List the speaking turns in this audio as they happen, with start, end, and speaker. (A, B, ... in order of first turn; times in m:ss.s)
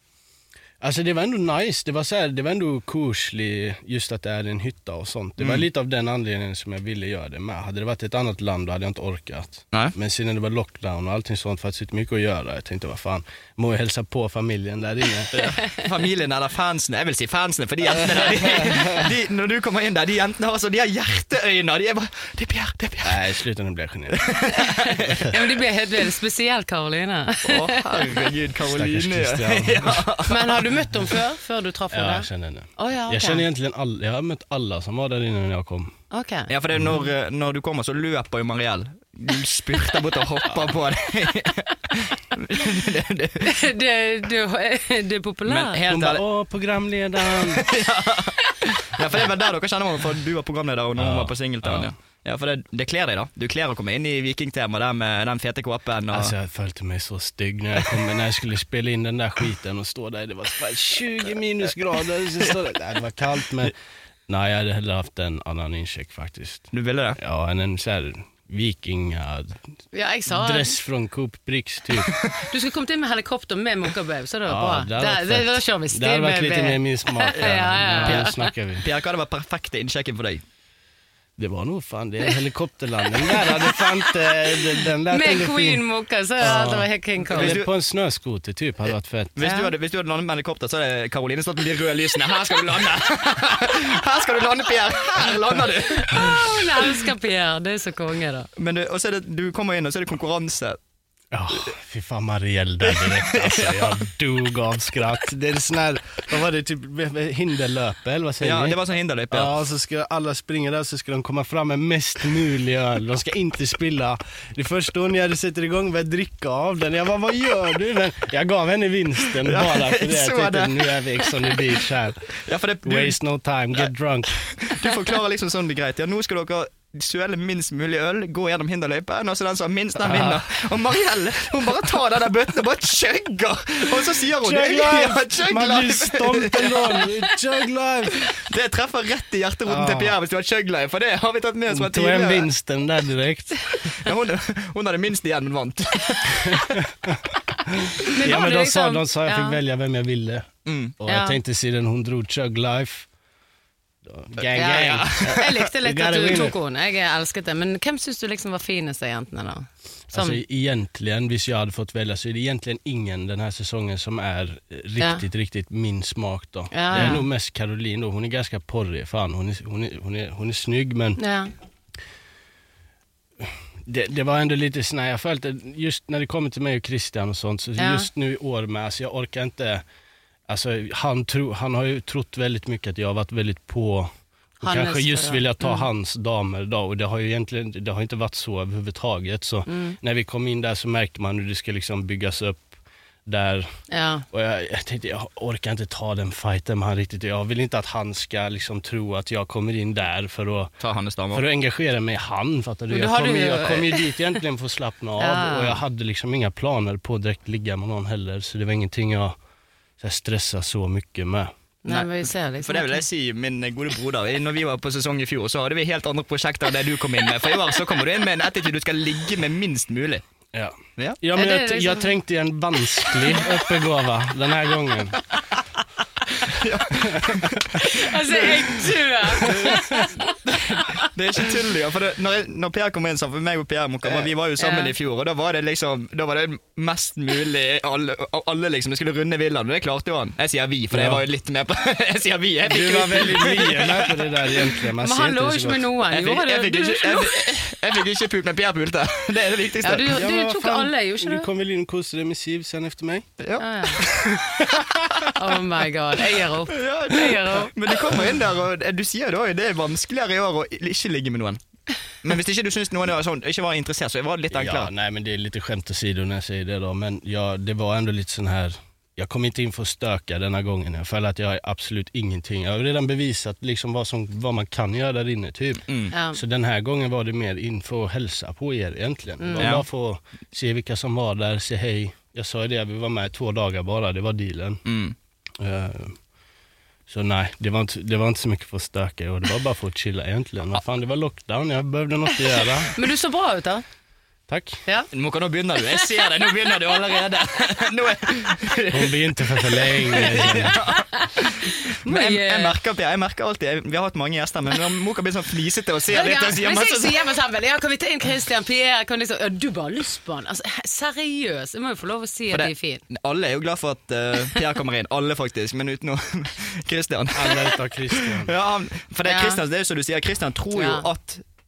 0:00.8-0:15.3 A
0:05.4-0:05.6 B
0:15.3-0:23.2 B
0:15.4-0:15.8 C
0:18.0-0:19.0 A
0:23.0-0:24.2 A
0:24.1-0:25.4 B
0:24.5-0:28.2 C
0:27.4-0:30.6 B
0:28.7-0:30.1 A
0:30.3-0:33.4 C
0:31.9-0:35.9 A
0:36.1-0:36.5 C
0:36.5-0:43.5 B
0:43.4-0:45.9 C
0:45.5-0:46.2 B
0:45.9-0:47.6 A
0:47.3-0:56.3 B
0:51.0-0:51.9 A
0:56.1-1:03.7 A
1:04.3-1:09.6 A
1:06.7-1:07.2 B
1:09.9-1:10.7 C
1:10.3-1:12.2 A
1:12.5-1:18.4 C
1:14.4-1:18.8 A
1:17.3-1:20.4 B
1:21.4-1:25.8 A
1:23.2-1:27.6 C
1:26.4-1:29.4 A
1:27.3-1:27.7 B
1:29.4-1:37.0 B
1:29.4-1:29.7 C
1:36.0-1:38.5 C
1:38.6-1:40.8 B
1:41.3-1:48.8 A
1:42.9-1:44.0 B
1:48.4-1:49.5 B
1:49.3-2:04.3 A
1:59.4-2:01.6 B
2:02.4-2:03.2 B
2:03.8-2:17.1 B
2:10.0-2:10.4 A
2:14.4-2:18.3 A
2:18.3-2:22.5 B
2:19.7-2:20.2 A
2:21.7-2:23.7 A
2:23.8-2:26.8 B
2:26.4-2:33.1 A
2:28.1-2:29.6 C
2:30.6-2:30.9 B
2:31.0-2:31.4 C
2:34.0-2:36.5 A
2:34.4-2:35.6 B
2:34.5-2:40.4 C
2:40.1-2:51.2 A
2:46.7-2:47.2 C
2:51.2-2:51.5 C
2:53.4-2:59.8 A
2:57.8-2:58.1 C
3:00.5-3:04.1 A
3:04.6-3:12.7 A
3:04.6-3:05.9 C
3:09.7-3:10.0 C
3:13.2-3:13.7 A
3:13.9-3:14.2 C
3:14.3-3:20.7 A
3:20.8-3:21.4 B
3:21.3-3:29.4 A
3:22.9-3:24.3 C
3:25.2-3:25.8 C
3:30.0-3:31.5 A
3:31.8-3:33.0 C
3:32.6-3:40.2 B
3:40.5-3:45.2 A
3:41.4-3:42.1 C
3:46.4-3:47.8 B
3:47.1-3:47.3 A
3:47.8-3:51.1 C
3:49.3-3:49.8 B
3:49.5-3:50.1 A
3:50.4-4:04.7 B
3:54.6-3:54.9 C
4:00.9-4:01.2 A
4:02.6-4:05.9 A
4:05.0-4:07.3 C
4:06.1-4:10.2 B
4:09.8-4:11.5 C
4:10.1-4:13.3 A
4:13.4-4:15.5 B
4:13.6-4:14.1 C
4:15.3-4:17.7 C
4:16.6-4:21.6 B
4:22.2-4:24.9 B
4:24.5-4:44.8 A
4:35.9-4:36.1 B
4:36.1-4:36.4 C
4:39.4-4:39.7 C
4:39.6-4:39.8 B
4:44.8-4:45.1 B
4:45.6-4:46.2 A
4:47.1-4:52.9 A
4:52.9-4:53.8 C
4:54.5-4:54.8 A
4:55.1-5:07.2 B
4:56.0-4:56.3 C
4:58.9-5:00.8 A
5:00.3-5:02.7 C
5:06.1-5:13.0 C
5:12.5-5:21.4 B
5:17.3-5:18.5 A
5:19.2-5:19.6 C
5:20.7-5:21.0 C